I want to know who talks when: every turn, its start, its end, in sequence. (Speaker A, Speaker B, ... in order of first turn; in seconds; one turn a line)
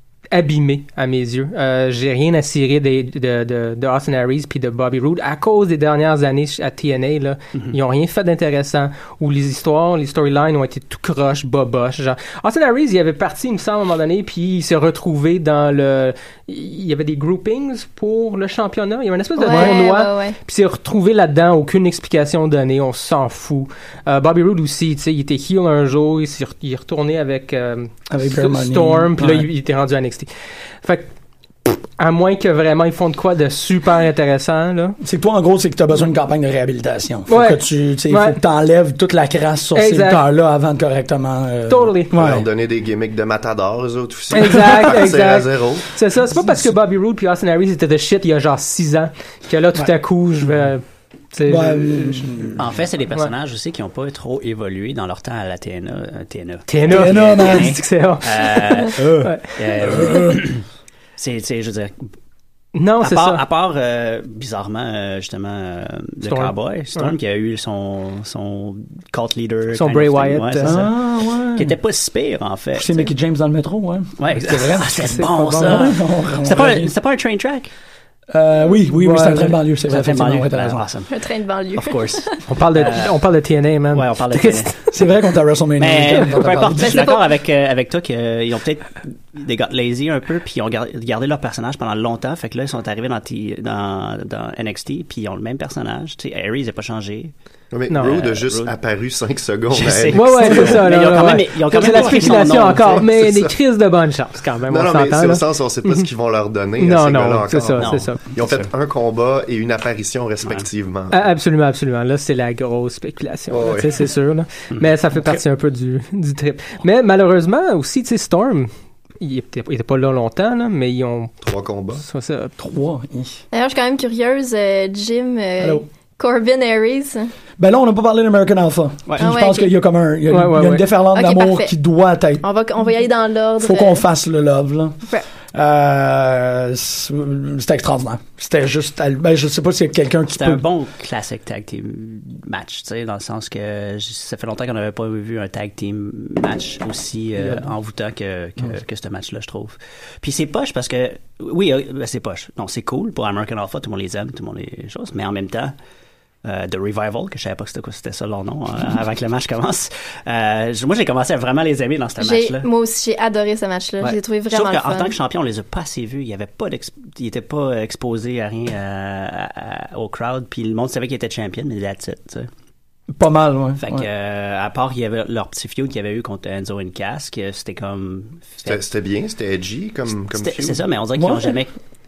Speaker A: 0.3-30.3
Speaker B: 19.4-20.4
Speaker C: 28.1-29.5
Speaker A: 30.8-31.1
Speaker A: 31.6-35.0
Speaker C: 35.0-42.5
Speaker A: 37.3-38.4
Speaker A: 39.8-40.2
Speaker A: 41.7-42.1
Speaker D: 42.1-45.9
Speaker A: 44.3-52.5
Speaker C: 46.3-46.7
Speaker C: 51.5-52.8
Speaker E: 52.6-60.6
Speaker A: 56.7-59.5
Speaker C: 56.9-57.8
Speaker C: 59.0-60.4
Speaker E: 61.2-62.1
Speaker A: 62.8-63.4
Speaker E: 63.0-73.1
Speaker A: 66.2-67.1
Speaker A: 69.8-70.8
Speaker C: 70.6-71.8
Speaker C: 72.8-76.9
Speaker E: 74.2-77.7
Speaker A: 75.1-75.8
Speaker C: 78.3-80.9
Speaker A: 78.9-79.5
Speaker E: 79.9-81.1
Speaker B: 81.1-82.4
Speaker E: 81.8-83.2
Speaker A: 82.5-84.8
Speaker E: 83.9-84.7
Speaker C: 84.9-87.0
Speaker E: 85.8-97.3
Speaker B: 86.8-87.3
Speaker D: 97.7-100.8
Speaker A: 97.9-98.2
Speaker E: 98.0-98.8
Speaker E: 99.7-103.1
Speaker A: 100.1-106.1
Speaker D: 101.8-103.5
Speaker D: 104.7-111.2
Speaker A: 106.8-108.2
Speaker E: 107.8-108.7
Speaker A: 111.1-121.3
Speaker D: 113.5-114.1
Speaker D: 121.4-122.0
Speaker A: 122.0-122.5
Speaker C: 122.6-123.4
Speaker B: 123.5-127.3
Speaker C: 125.6-125.9
Speaker C: 127.6-132.4
Speaker E: 129.1-129.3
Speaker B: 129.2-129.8
Speaker A: 130.3-130.9
Speaker B: 131.1-131.7
Speaker B: 132.4-134.1
Speaker C: 133.6-140.7
Speaker E: 140.3-155.8
Speaker C: 147.4-147.7
Speaker E: 156.4-162.7
Speaker B: 162.2-165.2
Speaker E: 164.0-172.5
Speaker C: 173.2-174.1
Speaker E: 173.8-178.8
Speaker D: 178.7-180.9
Speaker E: 180.3-181.8
Speaker C: 181.2-181.6